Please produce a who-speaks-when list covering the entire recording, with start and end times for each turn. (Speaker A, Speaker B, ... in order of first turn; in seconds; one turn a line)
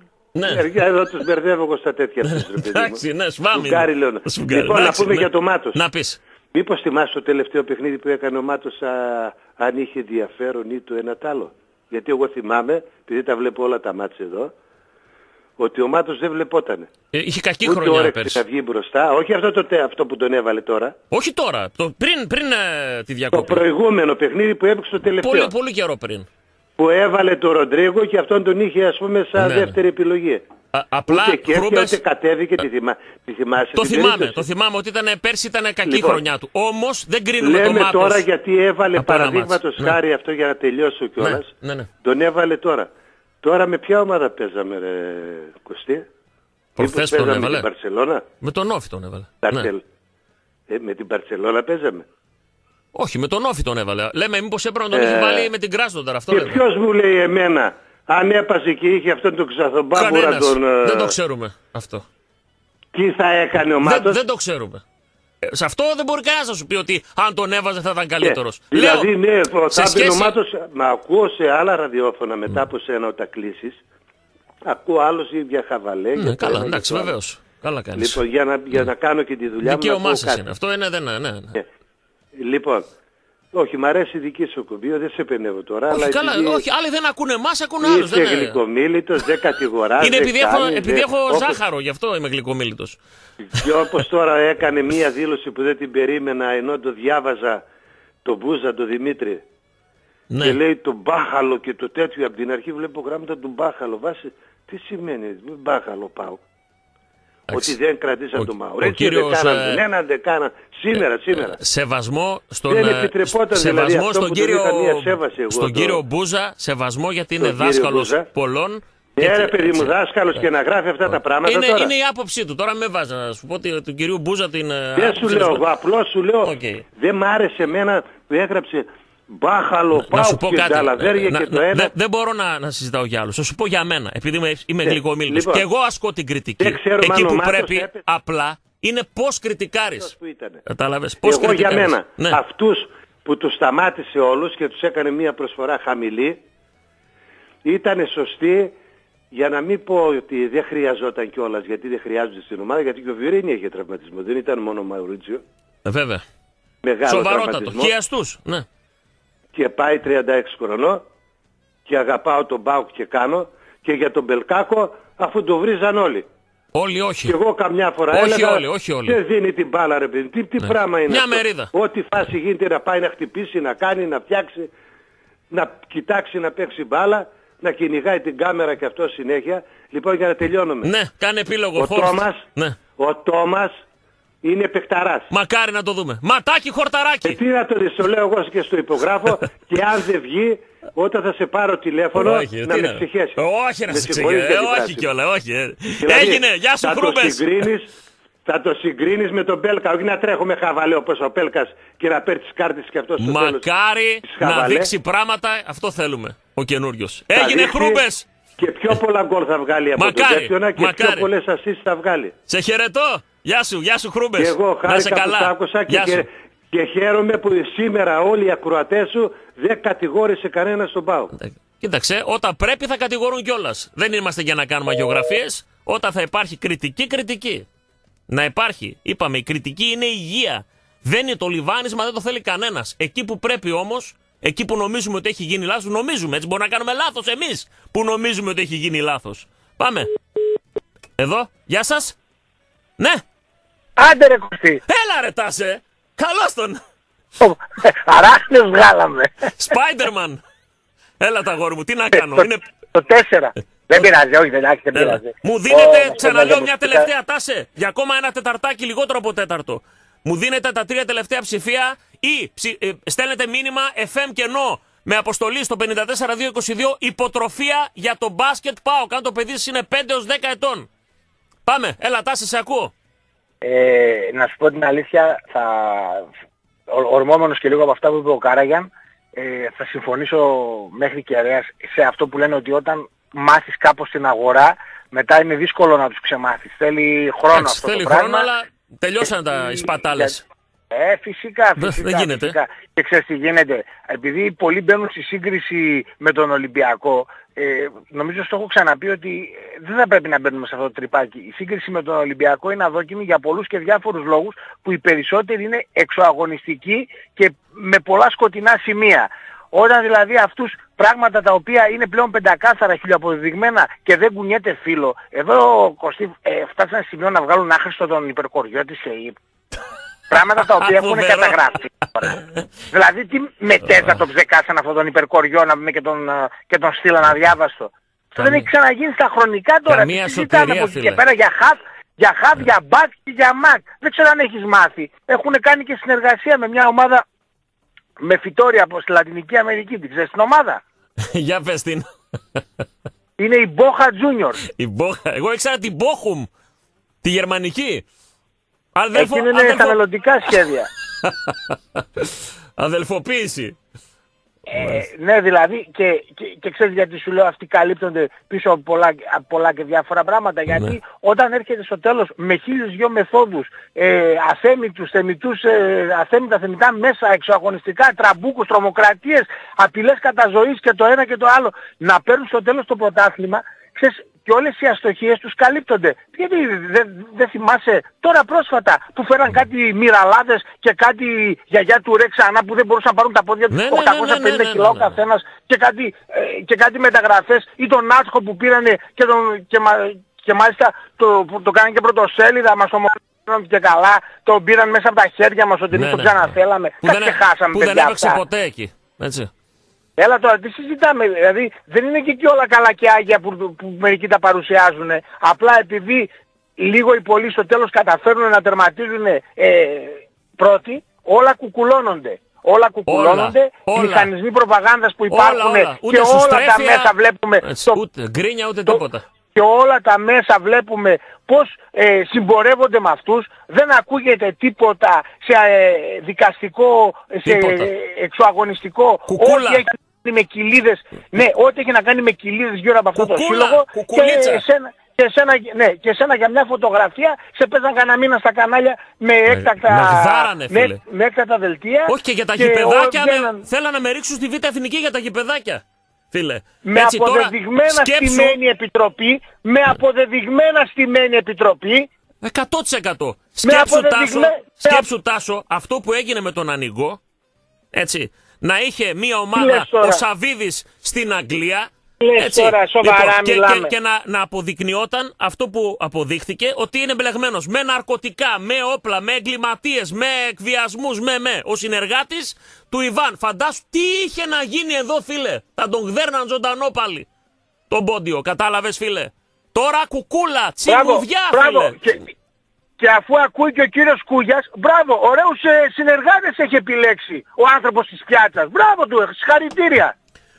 Speaker A: 0.3-0.6
Speaker B: 0.4-5.8
Speaker A: 2.2-6.2
Speaker B: 6.5-14.5
Speaker B: 15.6-16.9
Speaker A: 17.1-18.4
Speaker B: 17.6-20.9
Speaker A: 21.1-23.6
Speaker B: 23.3-25.5
Speaker A: 25.2-26.3
Speaker B: 26.8-30.4
Speaker A: 29.4-29.8
Speaker A: 30.7-32.0
Speaker B: 31.1-34.5
Speaker A: 33.8-38.3
Speaker B: 35.8-36.2
Speaker B: 37.4-41.5
Speaker A: 39.0-40.0
Speaker A: 41.2-41.9
Speaker B: 42.0-42.9
Speaker B: 43.4-46.0
Speaker A: 46.8-47.7
Speaker B: 46.8-48.2
Speaker A: 48.4-49.7
Speaker B: 49.4-49.8
Speaker B: 50.7-52.0
Speaker A: 52.9-56.6
Speaker B: 54.9-55.5
Speaker B: 56.3-61.1
Speaker A: 59.9-62.0
Speaker B: 62.9-64.2
Speaker A: 63.8-64.8
Speaker A: 65.5-69.1
Speaker B: 68.2-73.8
Speaker A: 69.7-70.4
Speaker B: 74.7-77.2
Speaker A: 76.2-78.9
Speaker B: 78.0-80.4
Speaker A: 79.6-81.6
Speaker B: 82.4-82.9
Speaker B: 83.5-86.6
Speaker A: 85.9-88.6
Speaker B: 87.8-91.6
Speaker A: 90.0-93.0
Speaker B: 93.5-97.6
Speaker B: 98.2-99.4
Speaker A: 100.3-100.6
Speaker B: 100.4-106.4
Speaker A: 107.5-107.8
Speaker B: 107.5-111.6
Speaker A: 108.3-109.8
Speaker A: 110.9-120.0
Speaker B: 112.7-116.0
Speaker B: 117.4-118.3
Speaker B: 119.2-121.9
Speaker A: 121.1-125.6
Speaker B: 125.0-131.9
Speaker A: 126.4-126.8
Speaker A: 129.9-140.1
Speaker B: 134.8-135.7
Speaker B: 136.6-138.0
Speaker B: 139.9-140.6
Speaker A: 140.7-142.4
Speaker B: 141.2-146.4
Speaker B: 147.6-148.7
Speaker B: 149.3-155.4
Speaker A: 155.8-156.2
Speaker B: 156.8-157.9
Speaker A: 157.1-158.7
Speaker B: 159.5-161.0
Speaker B: 161.8-166.2
Speaker A: 166.7-167.3
Speaker B: 167.2-174.7
Speaker A: 168.1-169.2
Speaker A: 170.6-171.7
Speaker B: 175.5-180.9
Speaker A: 180.8-182.8
Speaker B: 181.8-182.4
Speaker B: 183.0-183.8
Speaker B: 184.4-185.3
Speaker A: 185.3-187.4
Speaker B: 187.2-195.1
Speaker A: 192.1-197.7
Speaker B: 196.0-197.9
Speaker B: 198.4-203.7
Speaker A: 203.2-208.2
Speaker B: 204.2-204.9
Speaker B: 207.3-208.0
Speaker B: 208.6-212.3
Speaker A: 210.0-211.3
Speaker A: 212.5-216.2
Speaker B: 214.4-221.3
Speaker A: 221.3-227.7
Speaker A: 228.3-240.1
Speaker A: 241.2-242.2
Speaker C: 244.0-244.8
Speaker A: 244.9-246.8
Speaker C: 247.4-249.4
Speaker A: 249.5-250.4
Speaker A: 251.2-252.7
Speaker C: 252.2-257.1
Speaker A: 254.9-270.9
Speaker A: 271.6-272.9
Speaker C: 273.6-276.2
Speaker C: 276.9-288.5
Speaker A: 287.5-290.4
Speaker C: 289.7-290.3
Speaker C: 290.9-319.4
Speaker A: 291.8-292.6
Speaker C: 320.3-322.3
Speaker A: 320.3-322.4
Speaker C: 322.9-337.2
Speaker A: 323.8-324.2
Speaker A: 328.4-328.7
Speaker A: 329.9-331.2
Speaker C: 338.2-340.8
Speaker A: 341.2-342.6
Speaker C: 343.4-344.6
Speaker A: 344.6-346.5
Speaker A: 347.2-348.1
Speaker A: 348.9-350.6
Speaker C: 349.1-350.9
Speaker A: 351.2-353.8
Speaker C: 354.7-398.4
Speaker A: 354.7-355.0
Speaker A: 360.7-361.0
Speaker A: 383.7-385.2
Speaker A: 395.9-399.5
Speaker C: 400.2-418.0
Speaker A: 413.1-414.3
Speaker A: 415.3-419.2
Speaker C: 419.6-443.6
Speaker A: 427.4-427.9
Speaker A: 429.3-429.8
Speaker A: 433.1-434.6
Speaker A: 439.4-441.0
Speaker A: 442.1-448.6
Speaker C: 446.9-452.1
Speaker A: 452.4-457.2
Speaker C: 453.6-455.0
Speaker A: 457.9-477.3
Speaker C: 459.5-460.2
Speaker C: 462.2-463.9
Speaker A: 477.9-482.0
Speaker C: 480.9-482.3
Speaker C: 483.0-490.1